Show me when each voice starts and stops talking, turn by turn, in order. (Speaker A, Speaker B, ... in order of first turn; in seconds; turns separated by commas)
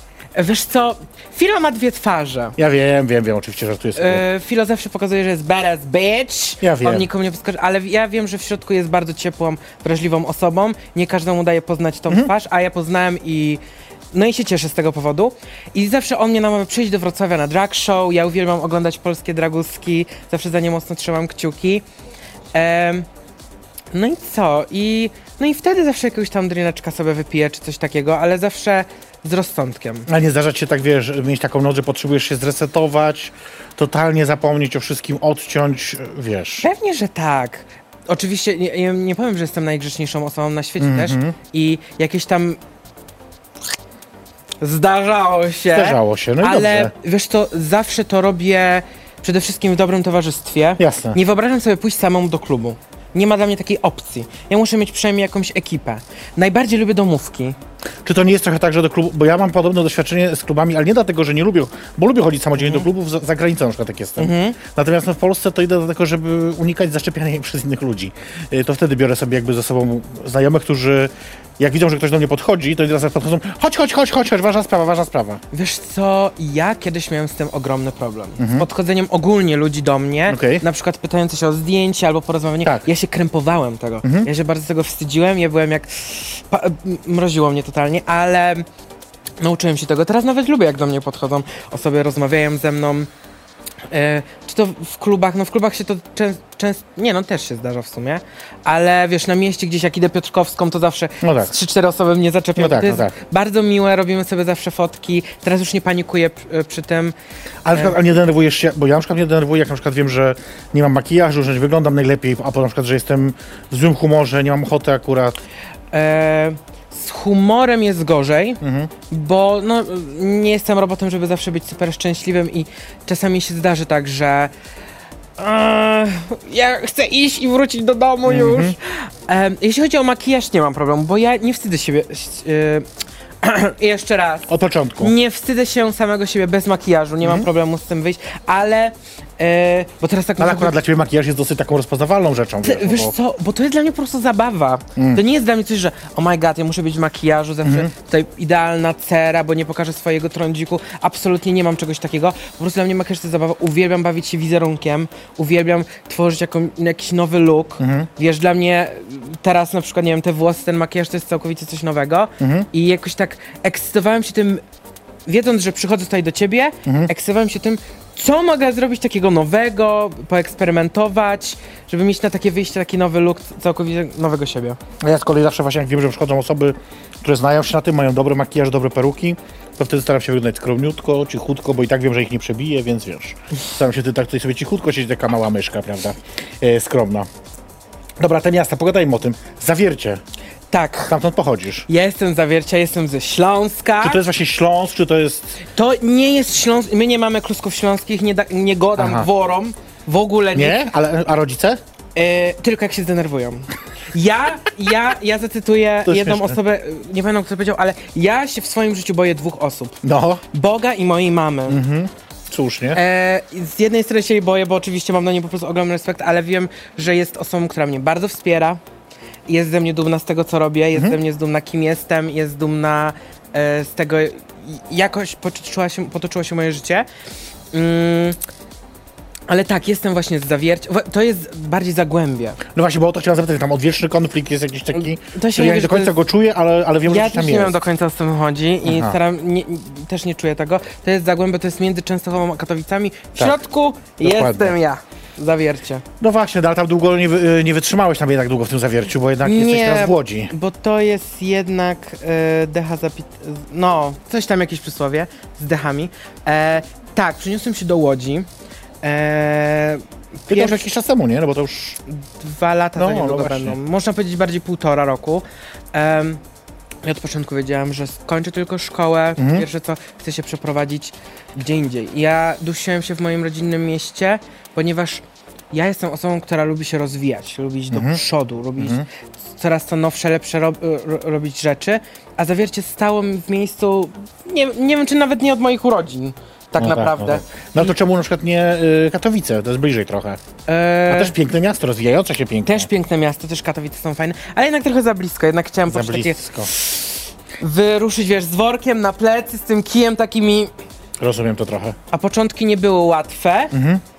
Speaker A: 0.3-2.6, Speaker B: 2.6-4.2, Speaker A: 4.0-21.8, Speaker B: 6.6-7.1, Speaker A: 22.5-23.1, Speaker A: 23.9-30.1, Speaker B: 30.1-36.7, Speaker A: 36.6-42.6, Speaker B: 40.8-41.4, Speaker A: 44.6-57.5, Speaker B: 45.7-46.9, Speaker B: 50.8-51.2, Speaker B: 58.0-75.4, Speaker A: 62.6-62.9, Speaker A: 64.2-64.6, Speaker A: 75.5-88.7, Speaker B: 78.4-78.7, Speaker B: 80.3-80.6, Speaker B: 84.0-84.3, Speaker A: 89.4-93.1, Speaker A: 93.9-107.1, Speaker B: 101.2-101.5, Speaker B: 102.5-103.1, Speaker B: 107.6-115.4, Speaker A: 115.9-124.5, Speaker B: 118.6-118.9, Speaker A: 125.4-132.8, Speaker B: 128.2-128.8, Speaker A: 133.4-140.7, Speaker B: 134.5-135.1, Speaker B: 140.4-143.1, Speaker A: 142.6-164.6, Speaker B: 145.0-145.2, Speaker B: 147.6-147.9, Speaker B: 157.8-158.1, Speaker B: 162.4-162.7, Speaker A: 165.2-174.8, Speaker B: 166.8-167.1, Speaker B: 175.0-187.3, Speaker B: 188.2-190.2, Speaker A: 190.7-191.1, Speaker B: 191.1-191.9, Speaker A: 191.9-194.2, Speaker B: 194.0-195.6, Speaker A: 195.8-200.8, Speaker B: 199.0-199.3, Speaker B: 200.5-201.8, Speaker A: 202.1-211.8, Speaker B: 206.1-206.6, Speaker B: 210.0-210.4, Speaker B: 211.7-213.0, Speaker A: 212.9-218.8, Speaker A: 219.5-227.1, Speaker A: 227.7-228.4, Speaker A: 229.5-232.6, Speaker B: 232.7-237.8, Speaker A: 234.9-236.1, Speaker A: 237.1-246.0, Speaker B: 238.8-239.2, Speaker B: 244.2-244.7, Speaker B: 246.2-250.5, Speaker A: 249.4-258.5, Speaker A: 259.0-260.9, Speaker B: 260.5-262.0, Speaker A: 262.1-266.4, Speaker B: 263.0-263.8, Speaker A: 267.0-287.9, Speaker B: 269.4-269.6, Speaker B: 277.9-278.2, Speaker B: 278.8-279.1, Speaker B: 286.8-290.4, Speaker A: 290.6-291.3, Speaker B: 291.1-292.9, Speaker A: 292.6-300.7, Speaker B: 295.9-296.7, Speaker B: 301.2-302.0, Speaker A: 302.1-303.7, Speaker B: 303.7-304.0